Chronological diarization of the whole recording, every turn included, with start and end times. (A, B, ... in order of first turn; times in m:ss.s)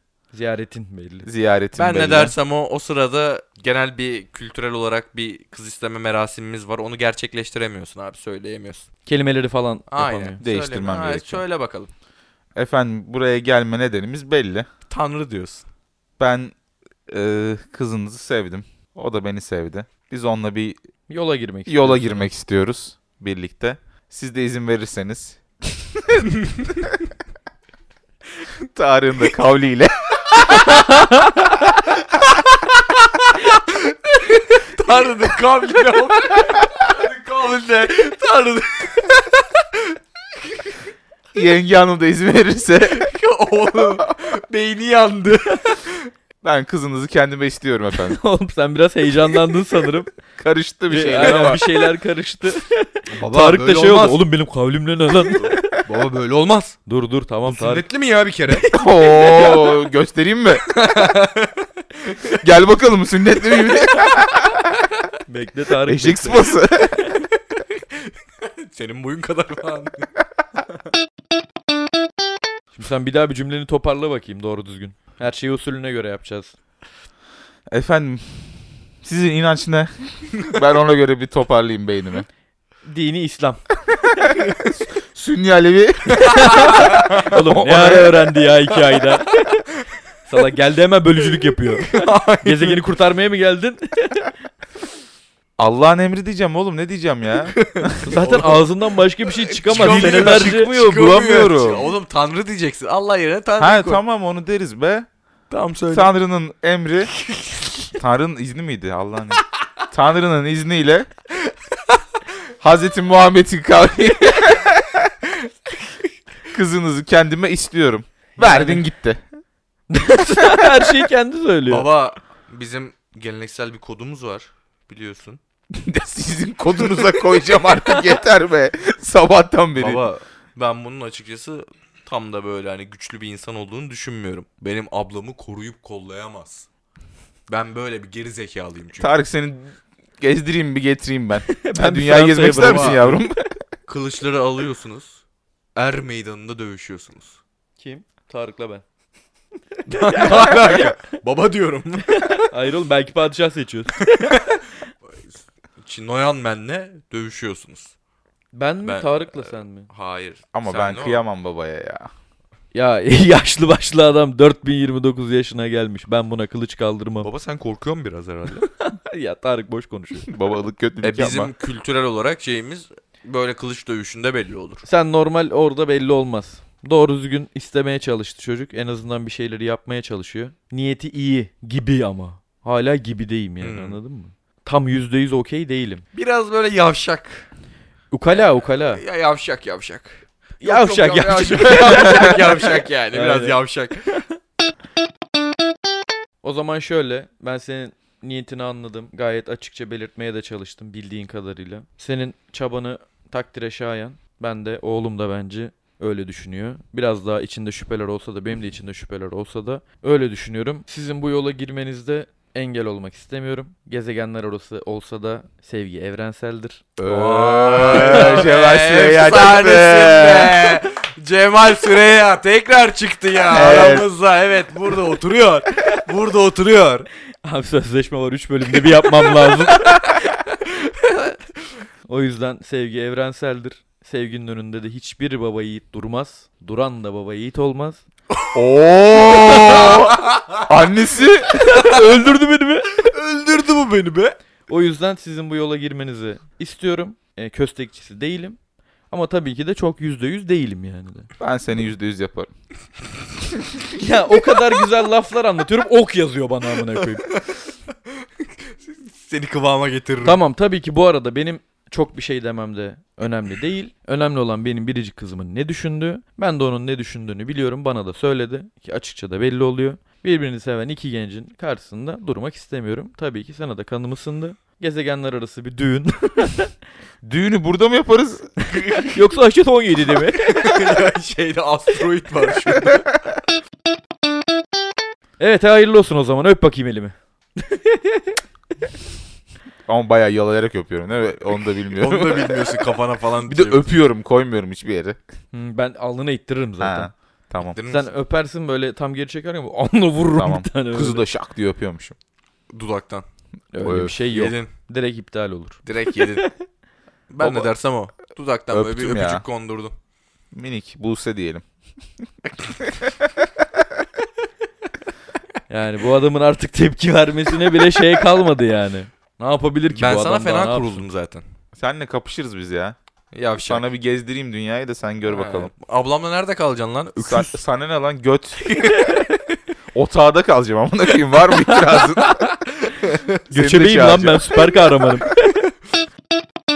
0:00.3-0:01.3 A
0:01.2-0:02.4 B
0:01.8-0:08.9 C
0:09.1-0:10.4 A
0:09.9-0:11.9 C
0:10.4-0:11.4 B
0:12.6-0:14.7 B
0:14.9-0:15.7 C
0:16.2-0:16.6 B
0:17.1-0:20.8 B
0:21.1-0:22.2 A
0:21.7-0:26.9 B
0:26.4-0:26.7 C
0:28.7-0:30.9 B
0:30.6-0:31.4 A
0:33.2-0:40.7 C
0:41.3-0:43.1 B
0:42.9-0:46.1 C
0:46.4-0:48.2 B
0:48.0-0:50.1 A
0:50.4-0:51.6 B
0:50.9-0:55.6 A
0:53.1-0:54.2 C
0:55.4-0:56.8 C
0:56.9-0:57.8 A
0:57.5-0:58.7 C
0:58.6-0:59.6 A
0:58.7-1:00.6 B
1:00.6-1:02.4 C
1:02.4-1:04.7 B
1:03.6-1:03.8 C
1:05.3-1:06.6 A
1:05.9-1:07.0 B
1:07.0-1:10.1 C
1:12.7-1:16.5 A
1:17.7-1:22.3 B
1:22.8-1:23.6 A
1:23.9-1:28.2 B
1:26.2-1:29.6 A
1:26.3-1:27.4 C
1:28.9-1:29.5 C
1:30.3-1:34.3 A
1:31.8-1:32.8 C
1:35.6-1:38.2 B
1:37.5-1:38.6 C
1:38.0-1:40.7 A
1:39.6-1:44.0 C
1:39.7-1:41.9 B
1:43.6-1:45.1 B
1:45.5-1:46.1 C
1:45.9-1:47.1 B
1:47.3-1:47.6 C
1:48.0-1:51.1 B
1:51.5-1:52.0 C
1:52.6-1:55.0 B
1:56.5-1:59.2 B
1:58.4-1:58.8 A
1:59.9-2:01.9 A
2:01.7-2:05.4 C
2:05.7-2:10.1 B
2:09.8-2:16.7 C
2:17.5-2:19.1 C
2:19.0-2:19.7 B
2:20.2-2:23.6 B
2:21.5-2:23.2 A
2:22.4-2:23.0 C
2:23.9-2:25.2 C
2:25.8-2:27.4 C
2:27.8-2:28.8 A
2:29.9-2:32.5 C
2:29.9-2:30.9 A
2:32.1-2:34.4 A
2:34.0-2:34.6 C
2:35.3-2:37.9 C
2:38.5-2:39.9 A
2:38.8-2:41.2 C
2:40.5-2:42.1 B
2:42.7-2:47.3 A
2:47.2-2:48.7 C
2:48.6-2:50.3 A
2:50.3-2:51.5 B
2:51.0-2:54.8 C
2:54.8-3:06.1 A
3:03.6-3:04.0 C
3:06.1-3:07.5 C
3:08.1-3:09.0 A
3:08.3-3:14.0 C
3:10.6-3:14.2 A
3:16.4-3:36.9 A
3:37.0-3:40.8 B
3:37.1-3:47.1 C
3:37.8-3:38.5 A
3:43.5-3:44.1 B
3:47.4-3:50.4 A
3:49.2-3:51.4 C
3:52.1-3:58.0 A
3:58.5-4:02.1 B
3:59.4-4:00.7 C
4:01.5-4:03.0 A
4:03.0-4:04.4 C
4:04.7-4:08.6 A
4:09.1-4:11.3 A
4:11.4-4:12.5 B
4:13.9-4:17.2 A
4:17.2-4:17.6 C
4:18.4-4:20.4 C
4:20.2-4:36.7 A
4:37.2-4:38.5 B
4:38.8-4:40.8 A
4:40.4-4:43.1 C
4:45.4-4:48.4 A
4:49.9-4:52.9 B
4:52.0-4:53.8 C
4:53.5-4:55.2 B
4:55.5-4:57.1 A
4:56.8-4:57.8 B
4:57.6-4:58.1 C
4:57.9-5:01.2 A
5:00.3-5:02.2 B
5:02.7-5:03.2 C
5:03.7-5:06.5 A
5:03.8-5:04.2 B
5:04.3-5:04.7 C
5:05.9-5:06.5 C
5:07.3-5:09.9 C
5:07.4-5:07.7 B
5:08.7-5:09.4 B
5:10.5-5:11.6 B
5:12.7-5:13.3 B
5:15.7-5:21.0 A
5:20.0-5:21.4 C
5:21.8-5:23.0 B
5:23.3-5:23.9 C
5:23.6-5:25.7 B
5:25.3-5:27.6 C
5:27.2-5:28.8 B
5:28.6-5:29.3 C
5:29.9-5:32.4 B
5:31.6-5:33.4 C
5:33.5-5:34.5 B
5:33.5-5:35.4 A